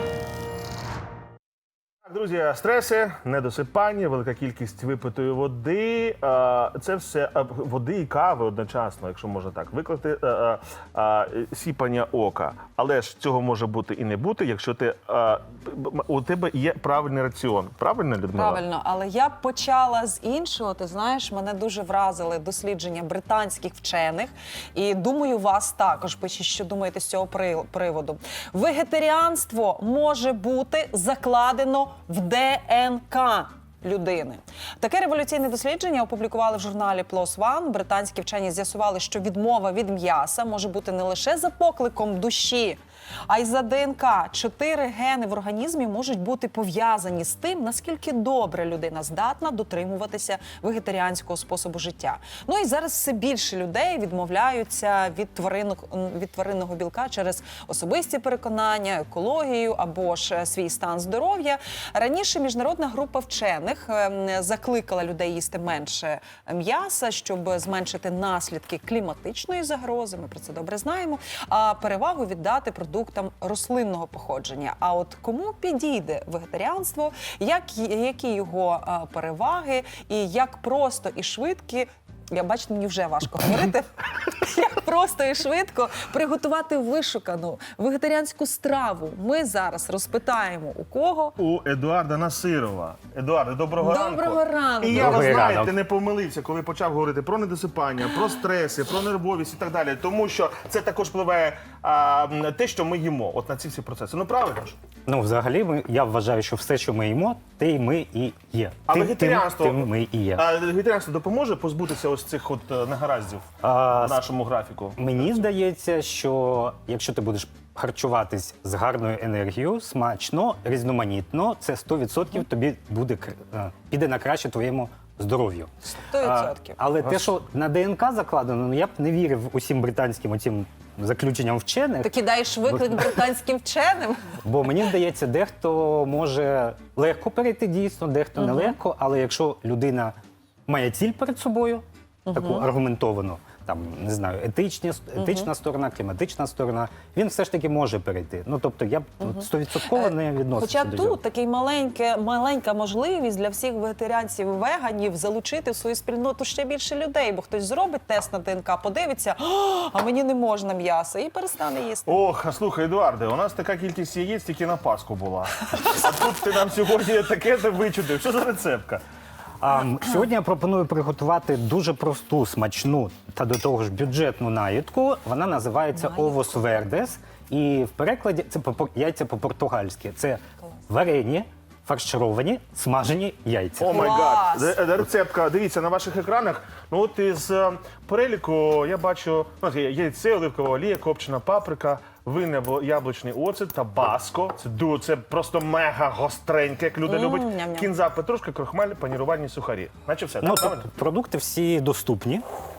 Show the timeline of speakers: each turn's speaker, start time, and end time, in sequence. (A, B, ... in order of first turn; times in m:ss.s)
0:02.0-0:18.6 A
0:18.3-1:31.4 B
1:31.4-1:44.8 A
1:33.8-1:35.5 B
1:34.9-1:35.7 C
1:45.1-1:50.5 C
1:48.9-1:55.4 A
1:53.6-1:54.2 C
1:55.0-2:12.2 C
2:05.8-2:06.8 B
2:12.0-2:14.4 B
2:14.4-2:20.2 C
2:18.4-2:18.8 B
2:20.7-2:31.2 C
2:22.3-2:22.7 B
2:25.2-2:25.5 B
2:29.2-2:42.2 B
2:42.1-2:49.0 A
2:49.6-3:04.1 C
2:56.0-2:56.5 B
3:03.8-3:20.9 A
3:03.8-3:04.8 B
3:17.1-3:17.9 B
3:20.4-3:22.4 C